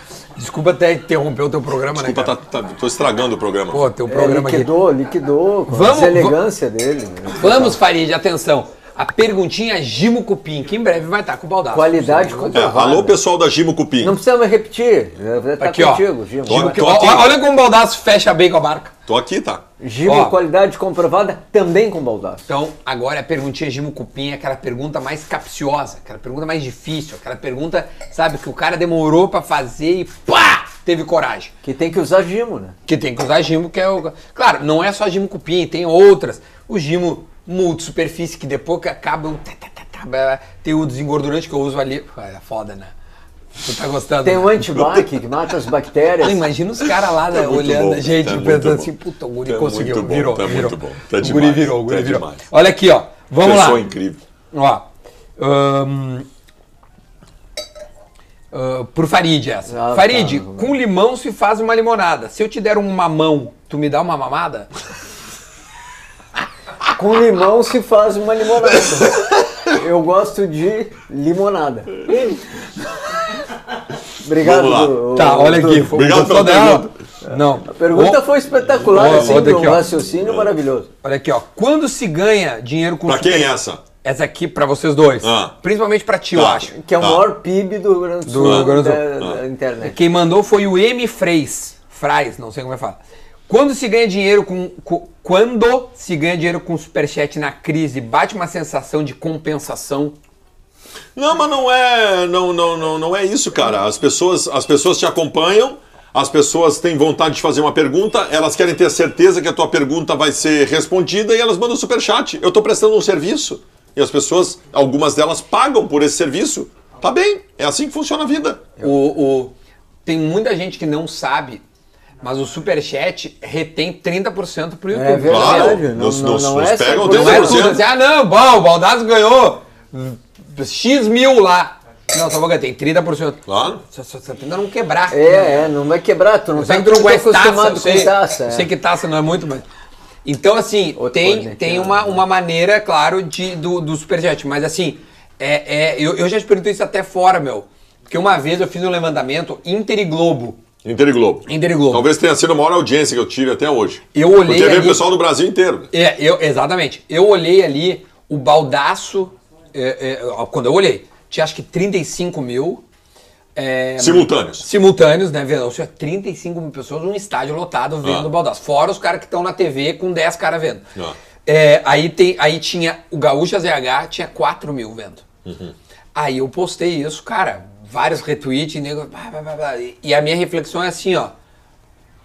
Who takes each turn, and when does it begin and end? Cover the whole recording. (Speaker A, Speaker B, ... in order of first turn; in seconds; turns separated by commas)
Speaker A: 0.4-2.4, Speaker B: 1.9-3.8, Speaker A: 3.7-4.7, Speaker C: 4.1-7.8, Speaker A: 5.7-6.4, Speaker A: 7.4-12.7, Speaker C: 11.7-13.2, Speaker B: 12.5-14.2, Speaker C: 14.0-16.9, Speaker A: 15.6-18.9, Speaker B: 16.4-17.4, Speaker B: 19.1-19.6, Speaker C: 19.8-22.4, Speaker A: 20.1-20.3, Speaker A: 22.5-31.5, Speaker C: 31.6-32.7, Speaker A: 32.9-42.9, Speaker A: 43.6-44.7, Speaker C: 44.2-46.4, Speaker B: 44.8-45.0, Speaker A: 46.2-53.8, Speaker B: 46.8-48.9, Speaker B: 49.5-52.4, Speaker B: 53.4-54.2, Speaker A: 54.5-54.9, Speaker A: 55.4-56.2, Speaker A: 58.5-64.7, Speaker C: 59.7-60.7, Speaker C: 66.9-72.0, Speaker B: 68.9-69.7, Speaker C: 74.2-76.0, Speaker B: 74.4-75.0, Speaker A: 75.1-78.2, Speaker B: 75.8-76.9, Speaker C: 77.2-80.9, Speaker A: 78.9-79.9, Speaker B: 78.9-79.6, Speaker B: 80.2-80.5, Speaker A: 81.0-83.5, Speaker B: 83.0-83.8, Speaker A: 84.0-86.7, Speaker B: 85.2-85.5, Speaker B: 86.3-87.2, Speaker C: 86.7-90.0, Speaker A: 88.3-89.1, Speaker B: 88.4-89.4, Speaker A: 89.8-100.1, Speaker B: 101.1-118.6, Speaker A: 118.8-119.5, Speaker A: 120.0-121.6, Speaker A: 122.2-125.8, Speaker C: 124.9-127.8, Speaker B: 125.3-127.8, Speaker A: 127.0-135.6, Speaker B: 133.5-133.8, Speaker C: 135.1-138.7, Speaker A: 136.6-139.6, Speaker A: 140.2-150.6, Speaker C: 141.0-142.2, Speaker B: 150.8-155.9, Speaker A: 151.5-152.1, Speaker A: 154.1-155.0, Speaker A: 155.9-162.8, Speaker A: 163.6-170.9, Speaker B: 164.0-164.7, Speaker B: 168.0-168.3, Speaker A: 171.4-175.2, Speaker B: 175.4-175.7, Speaker A: 176.1-181.3